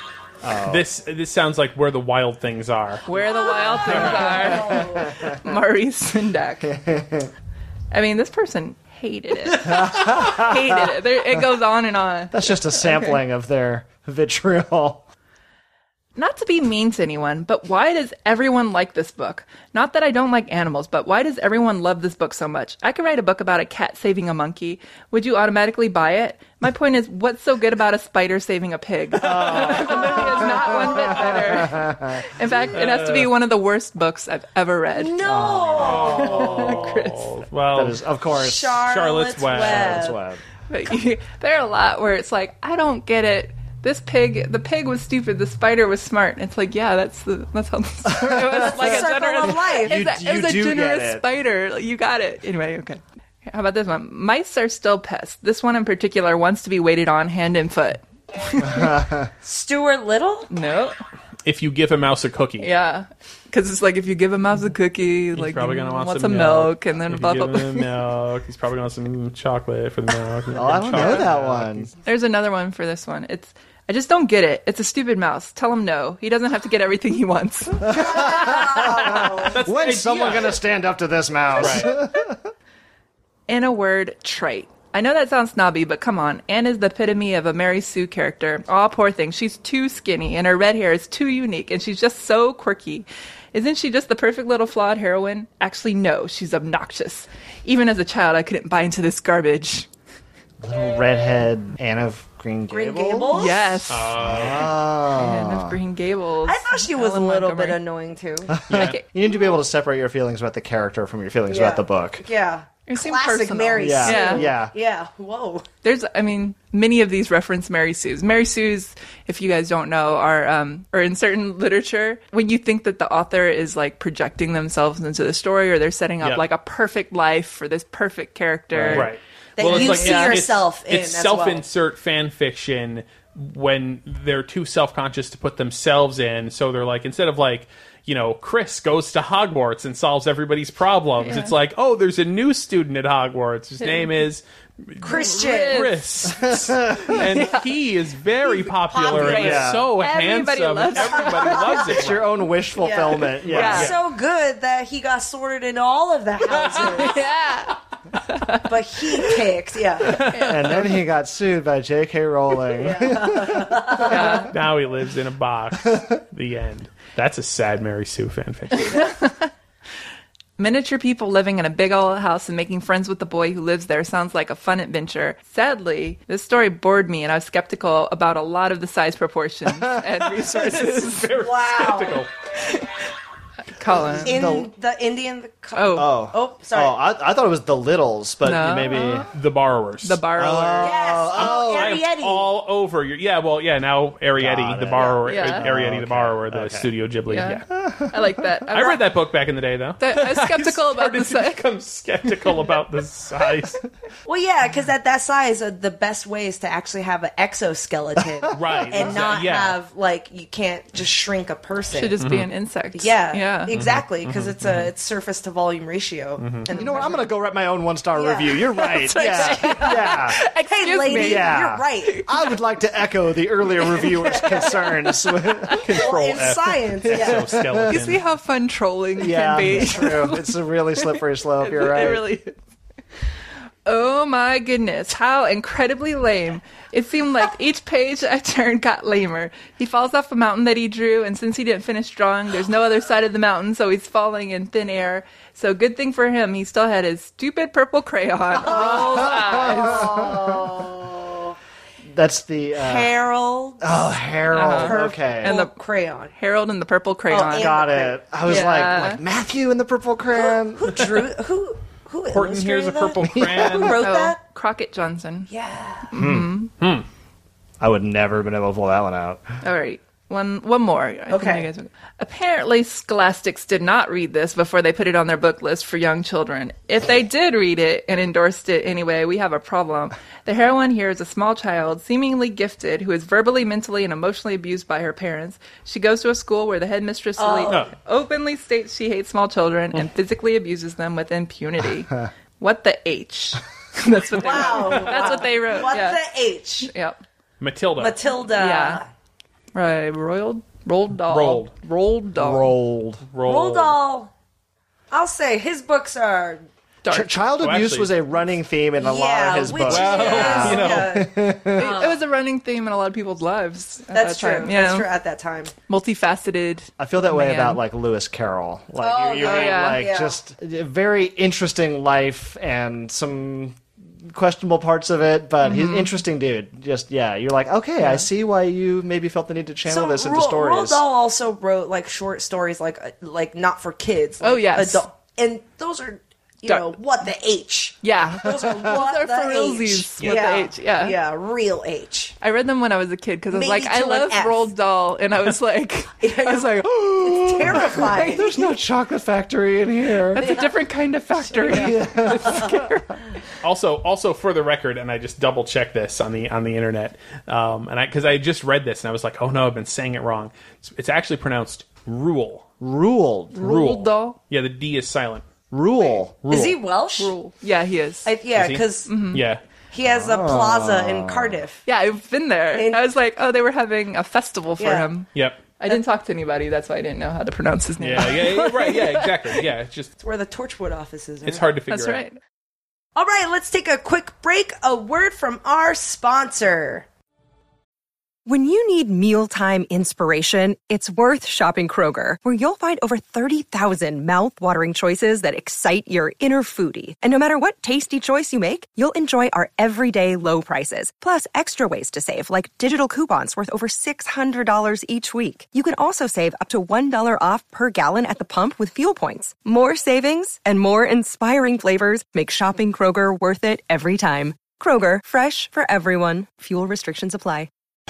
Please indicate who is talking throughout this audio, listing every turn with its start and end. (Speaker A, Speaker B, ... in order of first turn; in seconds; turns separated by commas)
Speaker A: 0.4-0.9, Speaker B: 0.6-3.0, Speaker C: 3.0-6.7, Speaker B: 3.9-4.4, Speaker D: 3.9-5.1, Speaker A: 3.9-5.4, Speaker A: 6.6-7.3, Speaker C: 7.9-13.2, Speaker A: 9.6-10.9, Speaker A: 12.3-15.1, Speaker C: 16.1-35.2, Speaker A: 29.1-32.2, Speaker B: 29.3-30.3, Speaker B: 32.7-33.3, Speaker D: 34.9-36.5, Speaker A: 35.2-36.5, Speaker B: 35.8-38.0, Speaker C: 35.8-37.3, Speaker A: 37.7-38.9, Speaker D: 38.3-40.2, Speaker B: 38.8-40.1, Speaker A: 39.5-40.4, Speaker C: 40.7-59.0, Speaker A: 48.0-51.2, Speaker D: 48.6-50.0, Speaker A: 58.6-59.3, Speaker D: 59.4-60.5, Speaker C: 60.5-61.0, Speaker B: 61.4-62.7, Speaker C: 62.6-67.9, Speaker B: 65.3-71.9, Speaker A: 70.5-71.9, Speaker C: 72.0-78.6, Speaker A: 77.8-82.4, Speaker D: 78.0-79.5, Speaker B: 79.2-80.6, Speaker B: 81.6-82.0, Speaker C: 83.5-99.9, Speaker A: 100.6-103.3, Speaker D: 102.7-103.8, Speaker C: 103.3-104.3, Speaker B: 103.9-104.8, Speaker A: 104.2-105.8, Speaker C: 105.1-107.8, Speaker D: 106.4-108.5, Speaker A: 108.5-112.2, Speaker B: 108.7-109.0, Speaker C: 108.7-109.0, Speaker D: 111.5-115.7, Speaker C: 112.9-114.5, Speaker A: 113.8-114.7, Speaker C: 115.8-129.1, Speaker A: 128.7-129.1, Speaker B: 128.8-152.3, Speaker D: 129.6-131.7, Speaker C: 129.6-130.4, Speaker C: 141.2-141.5, Speaker C: 143.8-144.1, Speaker D: 145.0-145.9, Speaker C: 145.0-146.0, Speaker A: 146.2-147.3, Speaker C: 147.1-147.6, Speaker D: 148.9-149.7, Speaker C: 149.2-151.8, Speaker A: 149.2-149.9, Speaker D: 151.4-151.7, Speaker A: 151.5-153.9, Speaker D: 152.8-157.2, Speaker C: 153.5-153.9, Speaker B: 153.5-154.0, Speaker C: 156.6-159.4, Speaker D: 158.6-160.2, Speaker B: 160.0-160.8, Speaker C: 160.3-161.0, Speaker A: 160.4-164.4, Speaker D: 162.8-164.3, Speaker C: 164.0-164.5, Speaker B: 164.5-169.1, Speaker C: 168.8-169.5, Speaker C: 170.6-181.3, Speaker B: 180.2-182.3, Speaker D: 181.3-182.2, Speaker C: 182.6-182.9, Speaker C: 183.7-184.6, Speaker A: 184.1-184.7, Speaker D: 184.2-187.0, Speaker C: 185.7-186.1, Speaker A: 185.9-189.3, Speaker C: 188.4-189.3, Speaker B: 189.3-190.2, Speaker C: 190.0-191.0, Speaker A: 190.3-192.0, Speaker D: 190.8-192.5, Speaker B: 191.3-197.6, Speaker A: 194.4-196.9, Speaker C: 195.2-195.7, Speaker C: 197.3-199.0, Speaker A: 197.7-198.4, Speaker B: 198.7-203.8, Speaker C: 200.0-201.6, Speaker D: 204.2-212.2, Speaker A: 208.2-209.3, Speaker B: 208.5-209.8, Speaker C: 211.9-213.7, Speaker B: 212.2-212.5, Speaker D: 212.9-217.1, Speaker B: 213.7-214.9, Speaker B: 216.4-216.7, Speaker C: 216.7-217.2, Speaker A: 216.7-220.4, Speaker D: 218.1-222.2, Speaker C: 218.7-222.5, Speaker A: 221.0-226.0, Speaker C: 223.8-225.1, Speaker B: 225.7-228.2, Speaker D: 225.9-227.6, Speaker A: 227.1-228.0, Speaker C: 227.9-232.5, Speaker A: 229.2-232.3, Speaker C: 233.8-250.3, Speaker D: 248.6-251.5, Speaker A: 248.6-250.7, Speaker A: 252.1-253.1, Speaker D: 252.8-254.1, Speaker A: 253.8-255.5, Speaker C: 254.5-255.8, Speaker D: 254.7-256.3, Speaker C: 256.3-257.8, Speaker D: 257.3-258.9, Speaker A: 257.5-261.3, Speaker C: 258.4-259.2, Speaker D: 260.4-264.4, Speaker B: 262.3-264.0, Speaker A: 263.2-264.0, Speaker C: 264.0-265.5, Speaker D: 265.5-266.1, Speaker C: 266.1-266.7, Speaker A: 266.1-266.6, Speaker B: 266.8-267.0, Speaker A: 267.8-269.4, Speaker C: 269.6-296.2, Speaker D: 271.3-271.7, Speaker D: 287.4-287.8, Speaker D: 294.4-296.9, Speaker B: 294.8-295.4, Speaker C: 296.8-297.2, Speaker B: 297.6-298.2, Speaker D: 298.0-299.1, Speaker C: 298.5-299.0, Speaker C: 299.7-302.7, Speaker B: 301.3-301.7, Speaker A: 302.3-303.2, Speaker B: 303.2-304.0, Speaker D: 303.4-304.3, Speaker D: 305.1-306.6, Speaker C: 307.0-307.4, Speaker A: 307.1-311.9, Speaker B: 307.6-308.1, Speaker D: 309.0-312.2, Speaker B: 309.8-311.1, Speaker C: 311.7-315.1, Speaker D: 314.1-315.7, Speaker C: 315.9-317.8, Speaker A: 317.0-331.0, Speaker D: 319.0-320.4, Speaker C: 319.4-320.1, Speaker C: 325.6-326.1, Speaker C: 328.0-328.2, Speaker D: 329.9-342.3, Speaker C: 334.4-335.0, Speaker C: 338.0-341.1, Speaker A: 338.4-338.8, Speaker C: 342.4-347.1, Speaker D: 343.5-344.7, Speaker D: 346.2-348.7, Speaker A: 346.8-350.6, Speaker C: 347.6-348.6, Speaker C: 350.3-353.2, Speaker A: 351.6-352.9, Speaker B: 353.6-362.7, Speaker A: 362.8-363.7, Speaker C: 363.5-364.4, Speaker B: 363.6-365.4, Speaker A: 365.7-366.8, Speaker D: 366.5-367.3, Speaker C: 367.2-368.3, Speaker D: 368.2-369.1, Speaker B: 368.5-369.6, Speaker C: 369.1-369.4, Speaker D: 369.9-371.8, Speaker A: 370.1-371.6, Speaker C: 371.9-379.6, Speaker D: 372.7-373.0, Speaker D: 374.8-375.1, Speaker B: 375.3-375.6, Speaker B: 378.0-380.1, Speaker D: 380.2-381.6, Speaker B: 381.4-382.2, Speaker C: 381.9-382.4, Speaker D: 383.1-387.1, Speaker E: 388.4-417.7